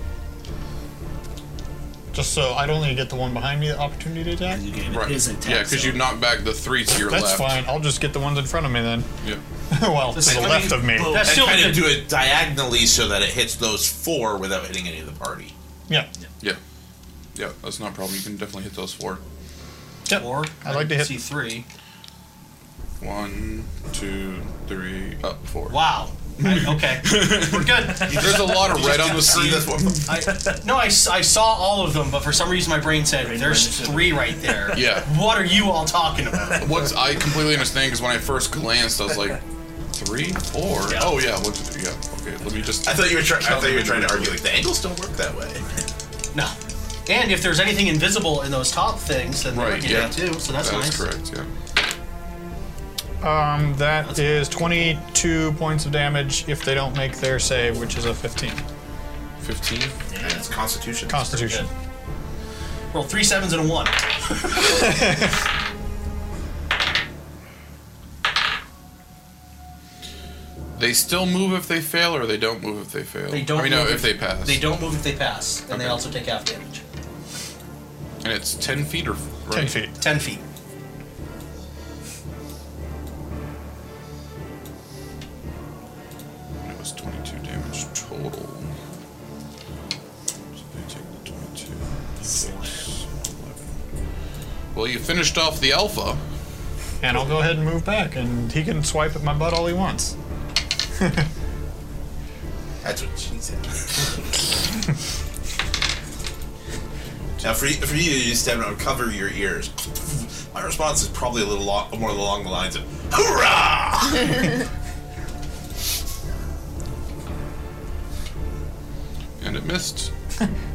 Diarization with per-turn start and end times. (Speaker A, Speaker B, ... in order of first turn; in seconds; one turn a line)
Speaker A: 2.1-4.7
Speaker B: 4.5-6.1
Speaker C: 4.9-7.6
Speaker A: 7.0-9.1
Speaker A: 9.7-11.3
Speaker D: 10.1-12.0
Speaker B: 10.2-11.7
Speaker E: 11.2-15.5
Speaker C: 17.4-19.2
Speaker A: 20.1-21.1
Speaker D: 20.1-21.6
Speaker C: 23.0-25.8
Speaker D: 25.7-29.5
Speaker C: 26.4-30.1
Speaker E: 28.1-30.1
Speaker D: 30.1-36.9
Speaker B: 30.3-30.6
Speaker B: 33.2-35.0
Speaker C: 34.7-35.1
Speaker C: 36.6-39.4
Speaker C: 39.9-44.4
Speaker D: 40.9-41.1
Speaker E: 42.9-45.7
Speaker D: 47.0-51.0
Speaker C: 49.5-51.5
Speaker A: 53.2-58.6
Speaker C: 59.4-60.0
Speaker B: 60.1-60.4
Speaker E: 60.1-61.6
Speaker A: 61.1-61.7
Speaker D: 62.9-64.8
Speaker A: 64.7-65.3
Speaker C: 70.8-74.7
Speaker D: 73.3-76.8
Speaker C: 75.7-76.0
Speaker C: 78.2-79.8
Speaker A: 79.5-79.9
Speaker D: 80.0-80.4
Speaker C: 86.6-88.7
Speaker C: 90.5-93.7
Speaker B: 92.2-92.9
Speaker C: 94.7-96.2
Speaker A: 97.0-100.1
Speaker A: 101.0-101.3
Speaker E: 102.8-103.9
Speaker E: 107.4-114.5
Speaker C: 119.4-120.1